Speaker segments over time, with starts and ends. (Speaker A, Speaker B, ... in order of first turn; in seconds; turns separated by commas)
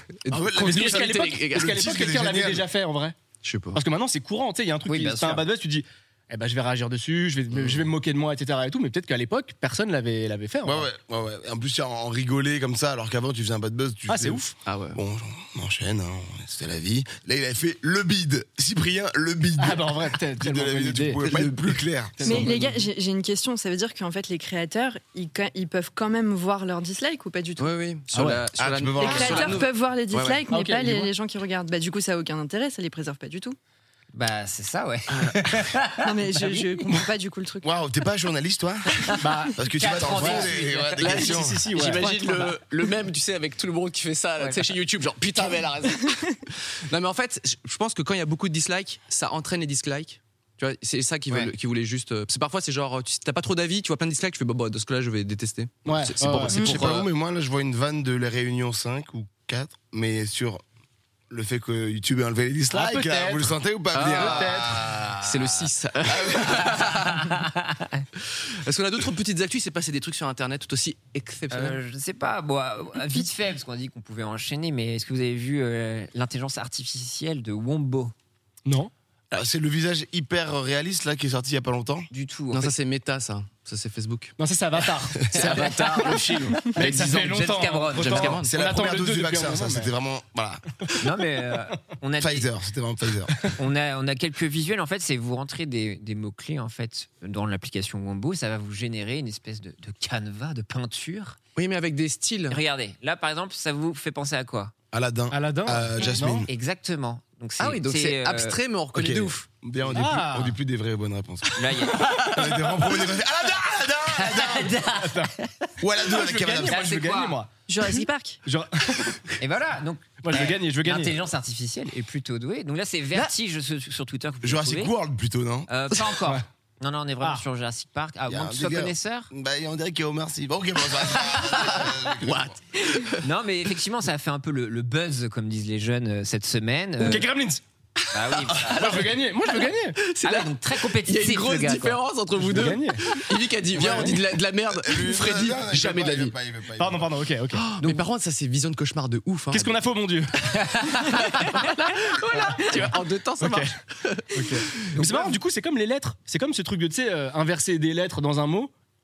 Speaker A: 0.2-1.8, Speaker B: 0.3-2.6, Speaker C: 0.6-3.1, Speaker A: 3.4-3.8, Speaker C: 3.7-10.9, Speaker D: 4.8-5.5, Speaker B: 10.6-14.4, Speaker C: 14.1-14.5, Speaker A: 14.7-15.0, Speaker B: 14.9-22.5, Speaker C: 19.6-21.2, Speaker A: 21.2-21.7, Speaker C: 22.2-22.8, Speaker E: 22.2-27.7, Speaker A: 27.6-30.4, Speaker C: 28.1-28.4, Speaker B: 28.6-29.6, Speaker E: 29.0-33.5, Speaker C: 30.5-31.1, Speaker D: 34.1-36.7, Speaker A: 35.1-35.4, Speaker E: 36.0-37.7, Speaker B: 37.6-41.7, Speaker D: 39.1-41.0, Speaker C: 39.2-39.5, Speaker C: 40.1-40.5, Speaker A: 41.0-57.1, Speaker C: 41.1-42.0, Speaker E: 42.0-42.4, Speaker C: 55.8-56.7, Speaker E: 56.5-56.8, Speaker B: 56.5-60.6, Speaker B: 61.3-66.9, Speaker C: 62.7-64.8, Speaker A: 63.9-67.4, Speaker D: 67.2-68.0, Speaker A: 68.3-71.8, Speaker D: 71.5-78.1, Speaker C: 78.7-78.9, Speaker B: 79.3-82.1, Speaker D: 82.1-82.7, Speaker A: 82.5-84.4, Speaker C: 84.4-89.9, Speaker A: 85.3-88.5, Speaker D: 85.3-86.1, Speaker D: 87.0-88.4, Speaker B: 88.4-90.6, Speaker D: 91.0-92.5, Speaker B: 92.2-93.4, Speaker D: 93.5-101.4, Speaker A: 101.5-102.6, Speaker D: 102.5-104.7, Speaker B: 104.9-106.5, Speaker C: 105.3-106.5, Speaker D: 106.5-108.6, Speaker A: 107.6-109.5, Speaker B: 108.9-111.5, Speaker C: 109.9-110.5, Speaker D: 111.5-112.1, Speaker A: 111.9-112.7, Speaker B: 112.2-114.8, Speaker D: 114.2-115.5, Speaker C: 114.8-115.3, Speaker B: 115.8-116.9, Speaker C: 116.1-117.5, Speaker D: 116.6-117.4, Speaker E: 117.7-118.4, Speaker C: 118.4-119.3, Speaker D: 119.4-124.9, Speaker C: 120.2-121.2, Speaker B: 124.4-125.7, Speaker D: 125.7-129.3, Speaker B: 128.3-132.6, Speaker A: 132.2-133.2, Speaker D: 133.2-137.3, Speaker C: 137.0-137.6, Speaker D: 138.1-139.1, Speaker A: 138.3-146.3, Speaker C: 138.7-140.0, Speaker D: 140.2-142.0, Speaker C: 142.4-143.1, Speaker B: 143.7-147.1, Speaker C: 143.8-144.2, Speaker C: 146.8-147.6, Speaker A: 147.5-149.7, Speaker C: 149.5-150.3, Speaker D: 150.5-151.6, Speaker A: 151.0-155.3, Speaker C: 152.5-152.8, Speaker C: 153.4-153.7, Speaker C: 154.3-158.7